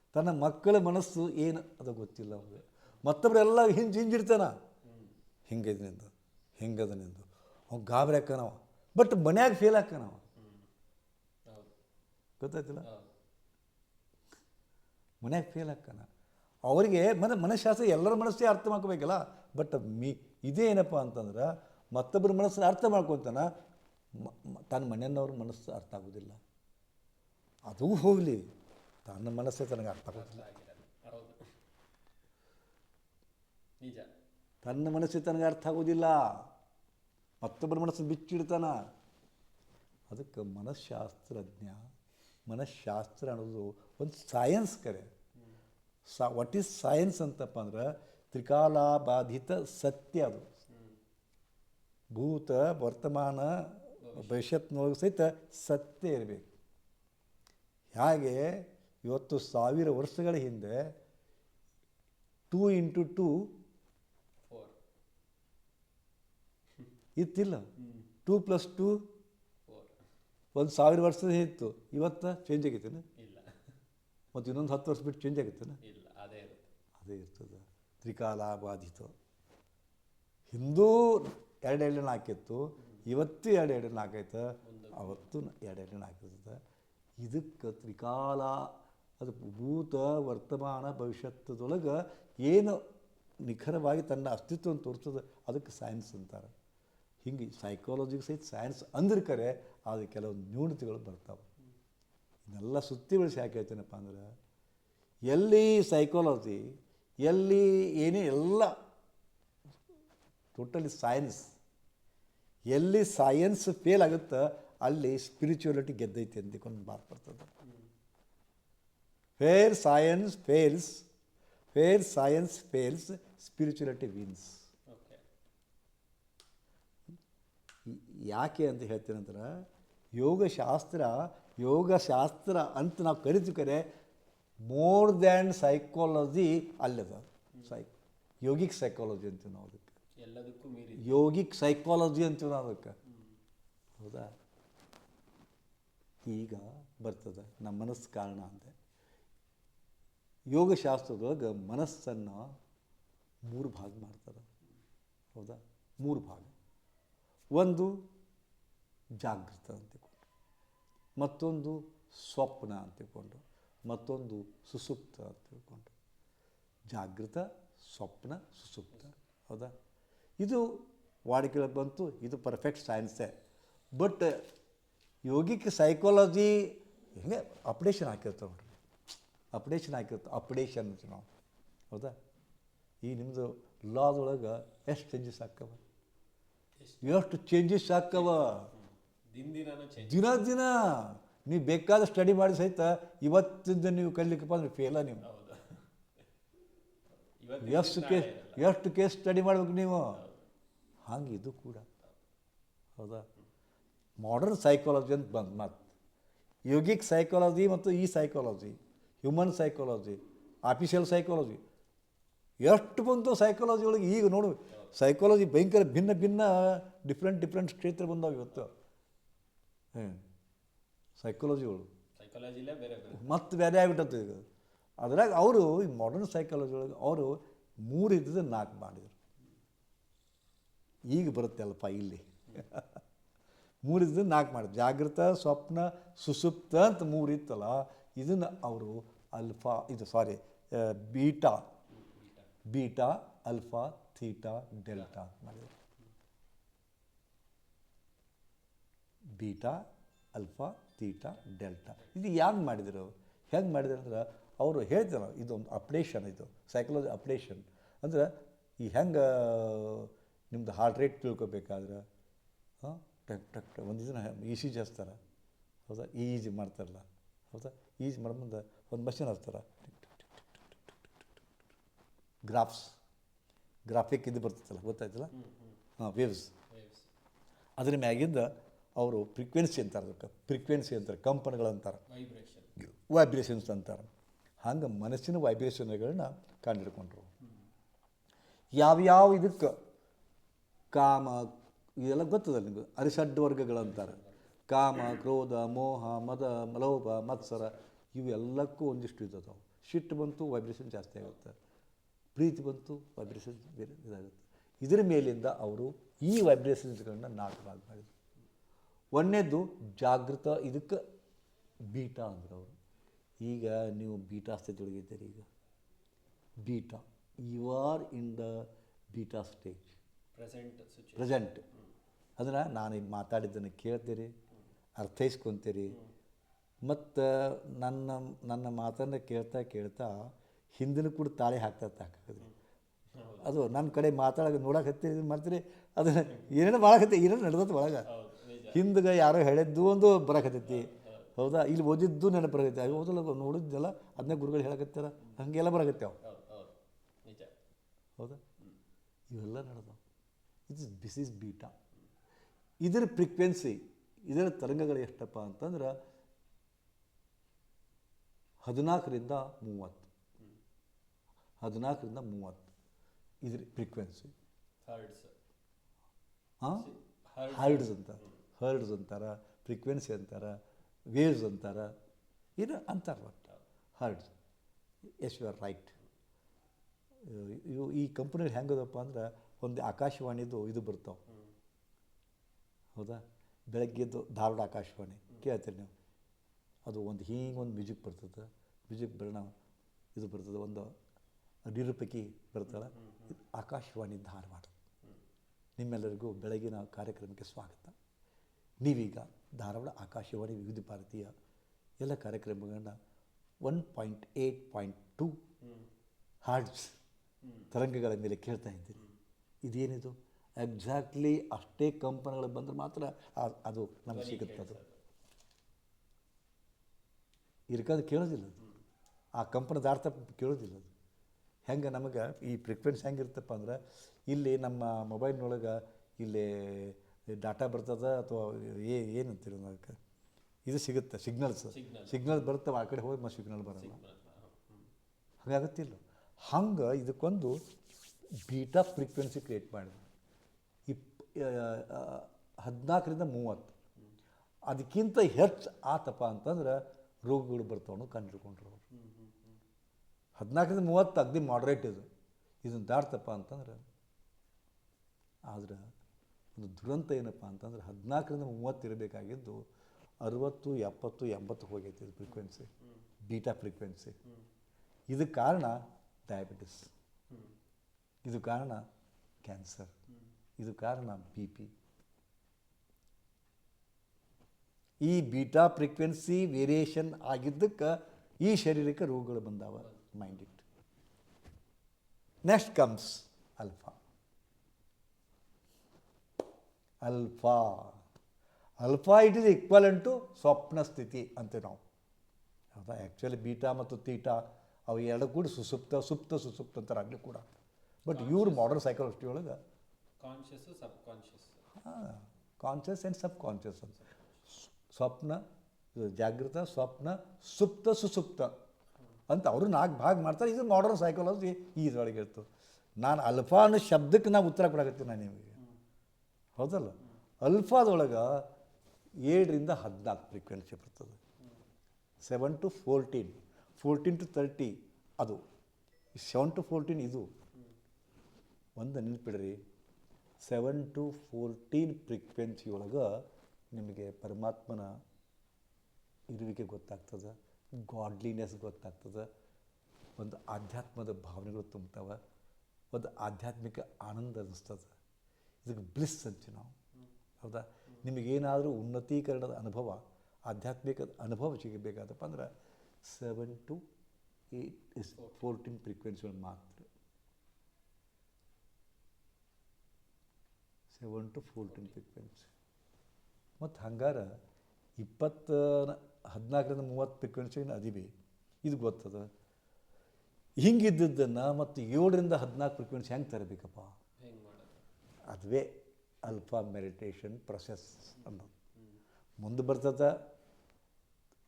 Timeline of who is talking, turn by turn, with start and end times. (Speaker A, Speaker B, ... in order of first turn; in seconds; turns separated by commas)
Speaker A: 0.1-4.5, Speaker B: 2.3-2.6, Speaker B: 4.8-5.2, Speaker A: 5.5-10.2, Speaker B: 10.3-10.7, Speaker B: 11.5-11.7, Speaker A: 12.4-12.9, Speaker B: 12.8-13.1, Speaker A: 15.2-16.1, Speaker A: 16.6-23.5, Speaker A: 24.1-26.4, Speaker A: 27.7-28.4, Speaker A: 29.1-30.4, Speaker B: 30.1-31.5, Speaker B: 33.8-34.1, Speaker A: 34.6-36.5, Speaker A: 37.4-38.8, Speaker A: 40.1-41.9, Speaker A: 42.5-45.1, Speaker B: 45.4-45.6, Speaker A: 46.1-50.5, Speaker B: 50.7-51.0, Speaker A: 52.1-56.5, Speaker B: 54.0-54.4, Speaker A: 57.9-60.9, Speaker A: 62.5-63.5, Speaker B: 64.5-64.8, Speaker A: 67.2-67.7, Speaker B: 67.8-68.1, Speaker A: 68.2-69.1, Speaker B: 69.7-70.0, Speaker A: 70.5-73.0, Speaker B: 73.2-73.6, Speaker A: 74.3-75.8, Speaker B: 75.8-76.7, Speaker A: 77.0-79.1, Speaker A: 80.5-86.6, Speaker B: 84.6-85.3, Speaker A: 87.2-92.8, Speaker A: 93.4-96.5, Speaker A: 97.2-101.5, Speaker A: 102.5-104.3, Speaker A: 105.3-108.7, Speaker A: 110.5-111.5, Speaker A: 112.7-117.5, Speaker B: 117.6-117.9, Speaker A: 119.4-121.1, Speaker A: 121.7-124.6, Speaker B: 124.9-125.2, Speaker A: 127.8-133.8, Speaker A: 134.6-137.9, Speaker B: 137.5-137.8, Speaker A: 138.4-140.0, Speaker B: 140.2-141.2, Speaker A: 141.0-143.0, Speaker B: 143.0-143.4, Speaker A: 144.0-144.3, Speaker A: 146.2-148.7, Speaker A: 150.5-152.5, Speaker A: 153.4-154.5, Speaker A: 155.3-156.5, Speaker A: 157.5-158.0, Speaker A: 159.2-160.2, Speaker A: 161.2-165.9, Speaker A: 166.9-169.7, Speaker A: 170.4-173.3, Speaker A: 173.9-174.4, Speaker A: 175.2-178.7, Speaker A: 179.5-181.3, Speaker A: 183.0-185.8, Speaker B: 186.8-187.2, Speaker A: 187.0-188.7, Speaker B: 188.1-190.4, Speaker A: 190.0-195.2, Speaker B: 195.2-195.9, Speaker B: 197.4-198.7, Speaker A: 197.6-200.2, Speaker B: 200.0-200.5, Speaker A: 201.0-201.8, Speaker A: 203.0-203.2, Speaker A: 204.2-205.9, Speaker A: 206.7-211.6, Speaker A: 212.6-218.7, Speaker A: 219.9-220.2, Speaker A: 221.2-221.9, Speaker B: 222.2-223.3, Speaker A: 223.1-224.4, Speaker A: 225.0-229.1, Speaker A: 231.1-233.0, Speaker A: 233.8-241.7, Speaker B: 241.9-242.5, Speaker A: 242.7-245.7, Speaker A: 249.3-262.0, Speaker A: 262.8-265.2, Speaker A: 265.9-271.0, Speaker A: 272.4-273.0, Speaker A: 273.9-275.3, Speaker B: 275.3-275.8, Speaker A: 276.0-276.5, Speaker B: 276.7-277.1, Speaker A: 277.8-282.0, Speaker B: 282.1-282.7, Speaker A: 282.8-284.1, Speaker A: 284.6-287.3, Speaker A: 288.7-289.8, Speaker A: 290.9-301.6, Speaker B: 293.8-294.4, Speaker B: 297.3-297.8, Speaker A: 302.3-308.1, Speaker A: 309.1-311.0, Speaker A: 311.9-312.7, Speaker A: 313.4-315.4, Speaker A: 316.6-320.0, Speaker B: 320.4-321.9, Speaker A: 321.2-321.6, Speaker A: 322.4-324.3, Speaker A: 325.0-326.0, Speaker A: 326.8-330.1, Speaker A: 330.8-332.5, Speaker B: 333.1-333.8, Speaker A: 333.4-338.1, Speaker B: 336.3-336.5, Speaker B: 338.0-338.8, Speaker A: 338.7-346.2, Speaker B: 340.6-341.3, Speaker B: 346.2-347.5, Speaker A: 349.3-350.0, Speaker A: 350.7-351.7, Speaker A: 352.8-356.0, Speaker A: 358.6-360.1, Speaker A: 361.6-362.7, Speaker A: 363.4-364.3, Speaker B: 364.8-365.3, Speaker A: 366.6-366.9, Speaker B: 366.7-368.4, Speaker A: 367.5-370.6, Speaker A: 371.1-371.9, Speaker A: 372.6-374.3, Speaker A: 375.2-376.0, Speaker A: 377.2-381.2, Speaker B: 381.3-381.5, Speaker A: 382.9-385.9, Speaker A: 386.9-389.5, Speaker A: 390.1-390.9, Speaker A: 391.7-394.7, Speaker B: 392.7-393.3, Speaker A: 395.8-397.9, Speaker A: 398.8-401.3, Speaker A: 402.0-402.9, Speaker A: 403.6-405.4, Speaker B: 405.6-405.9, Speaker A: 406.4-407.0, Speaker B: 407.4-407.7, Speaker A: 407.7-409.0, Speaker A: 409.6-414.8, Speaker B: 414.1-415.0, Speaker A: 417.7-418.6, Speaker A: 419.4-420.9, Speaker A: 421.7-430.0, Speaker A: 430.6-434.0, Speaker B: 431.7-432.4, Speaker B: 433.7-434.9, Speaker A: 435.4-437.6, Speaker A: 438.4-440.0, Speaker A: 440.9-443.7, Speaker A: 444.7-448.8, Speaker B: 448.9-449.6, Speaker A: 450.4-452.1, Speaker A: 452.6-453.8, Speaker A: 455.5-455.8, Speaker A: 456.6-459.6, Speaker A: 460.2-462.7, Speaker B: 462.2-463.0, Speaker A: 463.2-464.2, Speaker A: 465.1-466.9, Speaker B: 467.3-467.5, Speaker A: 468.2-468.8, Speaker A: 469.4-469.9, Speaker A: 470.6-471.7, Speaker A: 475.0-480.6, Speaker B: 479.8-480.3, Speaker A: 482.4-484.0, Speaker A: 487.0-488.0, Speaker A: 488.8-491.8, Speaker A: 492.7-497.4, Speaker A: 498.0-499.6, Speaker B: 498.1-498.8, Speaker B: 500.2-501.6, Speaker A: 501.8-505.4, Speaker B: 504.0-504.4, Speaker A: 505.9-508.5, Speaker A: 509.3-512.5, Speaker A: 513.0-515.6, Speaker A: 516.6-518.5, Speaker A: 519.2-521.2, Speaker A: 522.2-525.4, Speaker A: 526.1-527.3, Speaker A: 528.8-529.6, Speaker A: 530.4-534.9, Speaker A: 536.3-539.3, Speaker A: 540.2-542.2, Speaker A: 542.9-544.9, Speaker A: 545.6-546.7, Speaker A: 547.4-552.5, Speaker A: 553.0-553.8, Speaker A: 554.5-556.9, Speaker B: 555.2-555.4, Speaker A: 560.9-562.5, Speaker B: 561.7-561.9, Speaker A: 563.6-564.3, Speaker A: 565.0-568.1, Speaker A: 568.6-569.3, Speaker A: 570.6-573.9, Speaker B: 574.2-574.8, Speaker A: 575.3-578.5, Speaker B: 578.7-579.0, Speaker A: 579.4-580.1